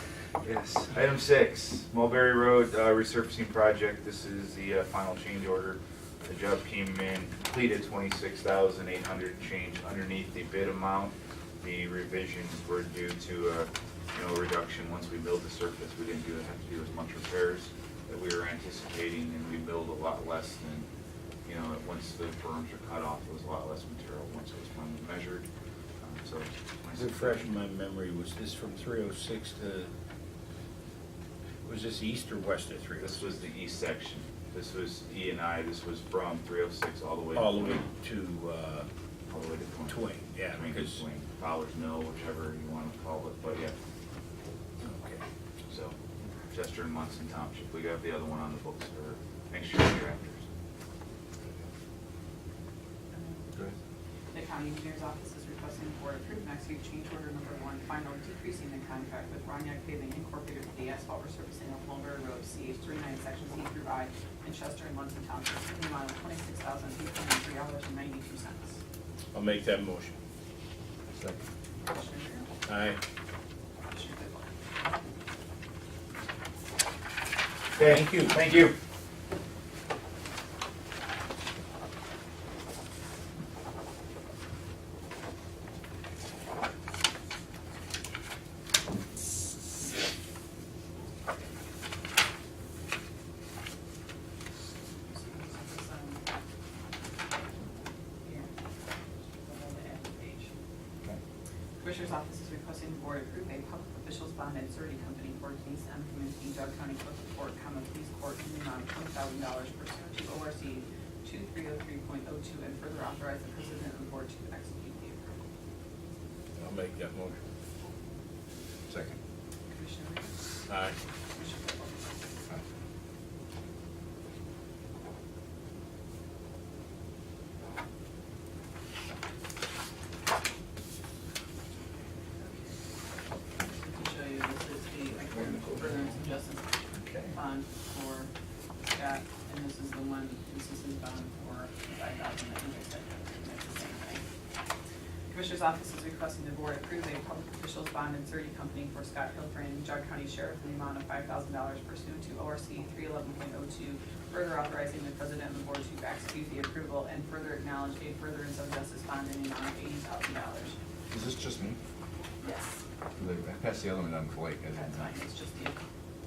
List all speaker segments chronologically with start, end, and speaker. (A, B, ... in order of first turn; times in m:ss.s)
0:00.4-0:20.9 A
0:21.4-0:25.5 A
0:26.0-0:27.6 A
0:27.0-0:29.9 B
0:31.6-0:33.4 B
0:33.0-0:37.7 A
0:37.3-0:38.9 B
0:39.3-0:43.8 A
0:39.9-0:41.0 B
0:45.7-0:46.0 A
0:46.5-0:50.4 A
0:53.1-0:53.4 C
0:54.3-1:08.8 C
1:09.3-1:10.2 B
1:11.2-1:11.4 D
1:11.8-1:12.5 C
1:12.7-1:13.0 B
1:13.9-1:14.5 C
1:17.8-1:18.8 B
1:35.1-1:36.2 C
1:38.2-1:38.5 C
1:39.4-1:40.5 C
1:41.8-1:55.3 C
1:56.6-1:57.4 B
1:58.9-1:59.2 D
1:59.7-2:00.3 C
2:00.7-2:01.0 B
2:01.3-2:02.1 C
2:12.4-2:12.8 C
2:13.7-2:16.6 C
2:15.4-2:16.1 D
2:17.3-2:18.3 C
2:18.9-2:24.2 C
2:25.3-2:40.8 C
2:41.1-2:41.8 D
2:42.4-2:42.8 C
2:43.2-2:45.1 D
2:44.7-2:45.8 C